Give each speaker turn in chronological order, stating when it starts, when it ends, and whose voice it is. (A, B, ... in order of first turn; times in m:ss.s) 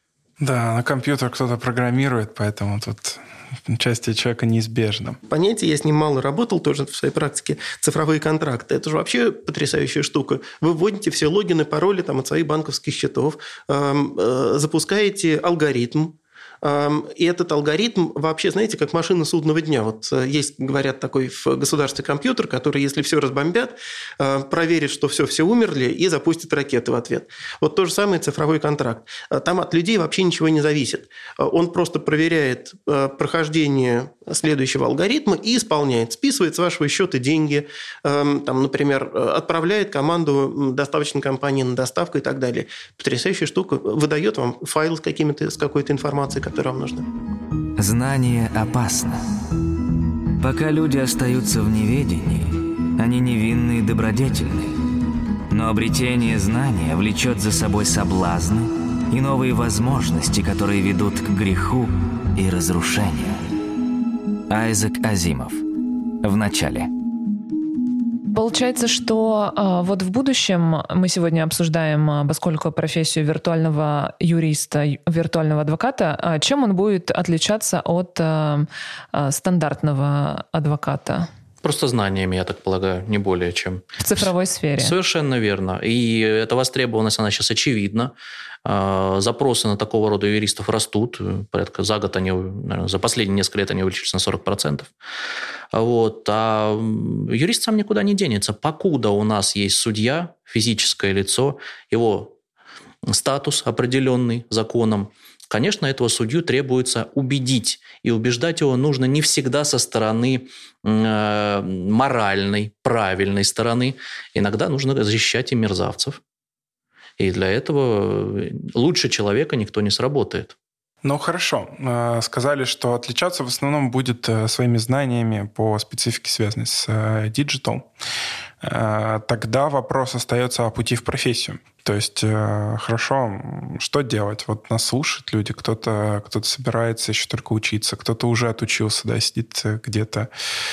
0:00.4-0:05.2 A
0:05.3-0:47.1 B
0:47.8-0:49.2 C
0:50.4-0:54.8 C
0:55.5-1:03.4 C
1:04.5-1:05.6 C
1:06.2-1:06.9 C
1:08.3-1:21.3 D
1:21.6-1:28.1 E
1:24.0-1:24.9 D
1:28.6-1:34.9 E
1:35.7-1:42.3 E
1:43.1-1:56.2 E
1:57.2-2:00.5 E
2:01.0-2:07.9 A
2:08.6-2:20.3 A